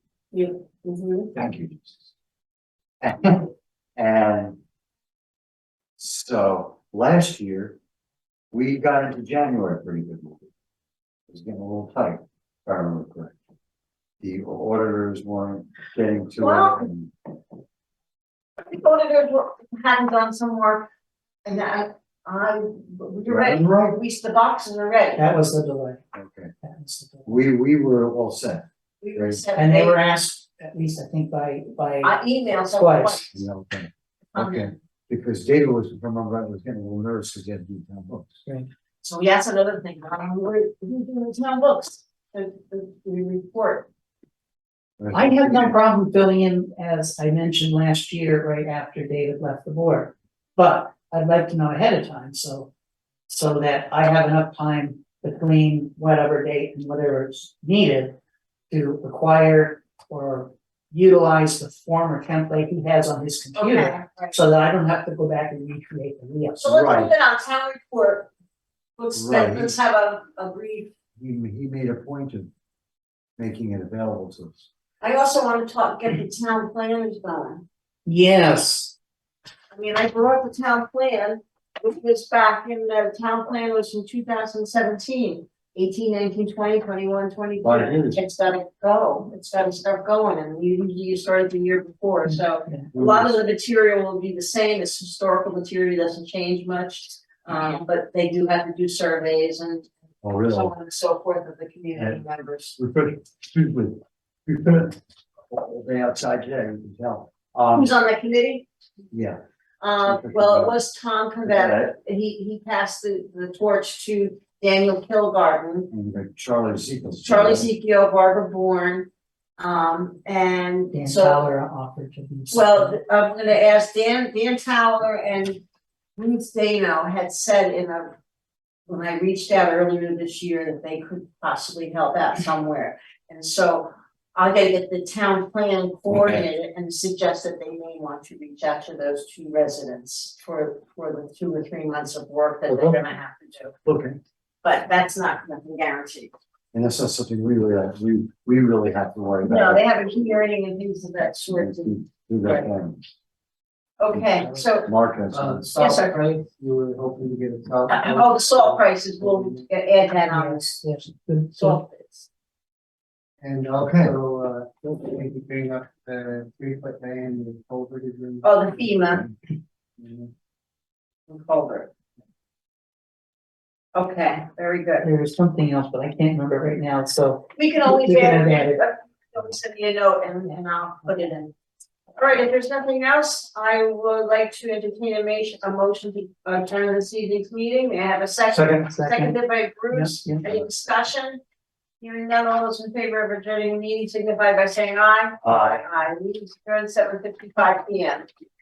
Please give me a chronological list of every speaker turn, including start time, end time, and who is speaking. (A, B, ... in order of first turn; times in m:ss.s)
0:00.3-0:01.3 A
0:01.3-0:02.1 B
0:03.0-0:04.6 B
0:06.0-0:07.8 B
0:08.5-0:10.5 B
0:11.3-0:13.4 B
0:14.2-0:17.1 B
0:16.4-0:16.9 A
0:18.6-0:20.9 A
0:21.4-0:25.2 A
0:23.2-0:24.0 B
0:25.2-0:26.0 C
0:26.1-0:26.5 B
0:26.6-0:27.4 C
0:27.2-0:29.5 B
0:29.0-0:30.0 A
0:29.6-0:33.4 C
0:32.0-0:33.3 A
0:33.3-0:38.4 B
0:34.3-0:34.7 A
0:39.0-0:43.9 A
0:45.0-0:45.8 B
0:45.1-0:52.7 C
0:53.3-0:58.2 C
0:58.7-1:06.7 C
1:03.6-1:04.4 A
1:06.6-1:08.3 A
1:06.7-1:07.1 B
1:09.0-1:10.9 A
1:09.1-1:09.8 B
1:11.2-1:12.5 B
1:13.4-1:14.7 B
1:15.0-1:17.6 A
1:18.1-1:18.9 C
1:19.7-1:39.9 A
1:27.6-1:28.2 B
1:32.3-1:32.9 C
1:32.9-1:33.4 B
1:40.2-1:40.7 B
1:40.4-1:42.8 A
1:42.0-1:42.2 B
1:42.8-1:45.0 B
1:45.5-1:47.9 B
1:47.7-1:48.7 A
1:49.1-1:49.4 B
1:49.8-1:55.9 A
1:50.0-1:50.8 B
1:51.4-1:52.0 B
1:55.9-1:57.7 B
1:57.2-2:01.4 A
2:00.9-2:03.0 C
2:02.5-2:05.6 A
2:06.2-2:08.2 A
2:08.9-2:23.8 A
2:16.1-2:16.4 B
2:22.7-2:23.0 B
2:23.8-2:24.2 B
2:24.6-2:26.3 A
2:26.7-2:29.9 B
2:29.4-2:32.7 A
2:31.5-2:33.0 B
2:34.0-2:34.9 A
2:34.1-2:35.7 B
2:35.3-2:39.6 D
2:35.7-2:36.3 A
2:37.9-2:40.8 A
2:40.2-2:41.8 C
2:41.6-2:42.3 A
2:43.4-2:48.9 D
2:43.8-2:44.2 B
2:48.4-2:49.2 A
2:50.0-2:50.3 D
2:51.3-2:51.9 A
2:54.0-2:55.1 A
2:55.0-2:58.8 C
2:57.6-3:01.5 A
3:02.2-3:11.4 A
3:08.5-3:09.4 C
3:09.9-3:10.5 C
3:12.0-3:18.3 A
3:15.4-3:15.9 B